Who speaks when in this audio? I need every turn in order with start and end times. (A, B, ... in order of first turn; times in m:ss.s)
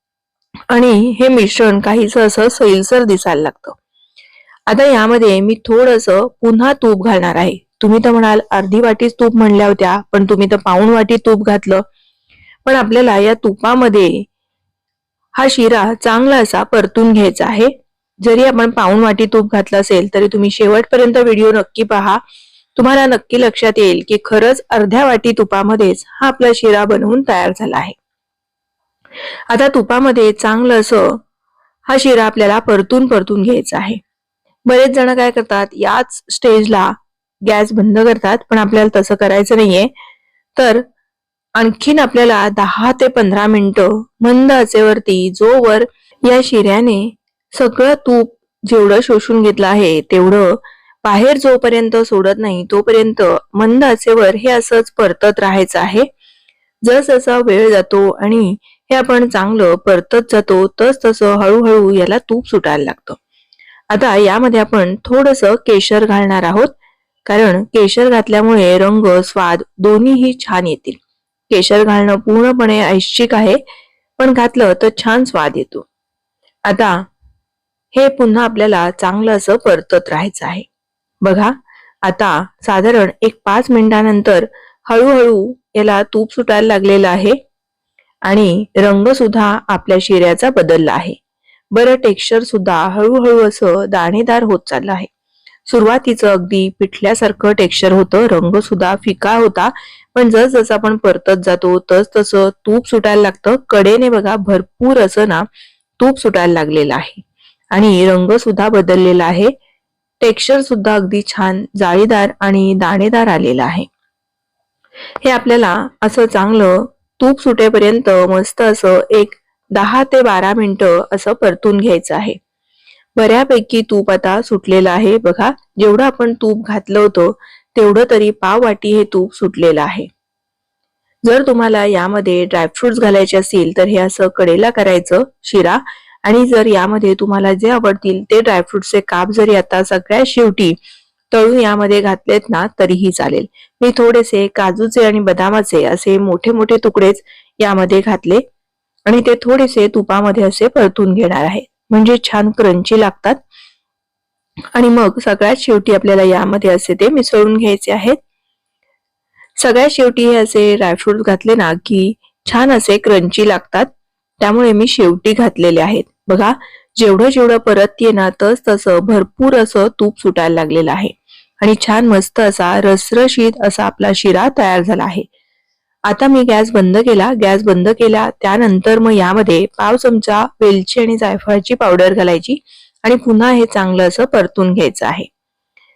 0:00.7-0:03.8 A
0:04.7-0:11.8 A
0:12.7-0:14.2 A
0:15.4-0:17.7 A
0:18.2-0:22.2 A
0:22.8-0:28.0 A
0:29.5-0:31.2 A
0:31.9-0:34.0 A
0:34.7-0:36.9 A
0:37.4-0:39.9 A
0:40.6-0:40.8 A
0:41.6-0:56.1 A
0:56.9-1:03.2 A
1:03.9-1:06.7 A
1:07.3-1:11.0 A
1:11.5-1:13.6 A
1:14.2-1:15.9 A
1:16.7-1:17.0 A
1:17.9-1:20.7 A
1:21.2-1:27.4 A
1:28.2-1:31.2 A
1:31.7-1:35.1 A
1:35.7-1:45.5 A
1:46.0-1:49.5 A
1:50.2-1:53.9 A
1:55.2-2:02.4 A
2:03.2-2:10.1 A
2:11.2-2:20.8 A
2:21.3-2:28.4 A
2:29.1-2:33.4 A
2:34.8-2:38.2 A
2:39.6-2:43.9 A
2:44.4-2:55.3 A
2:56.1-3:05.3 A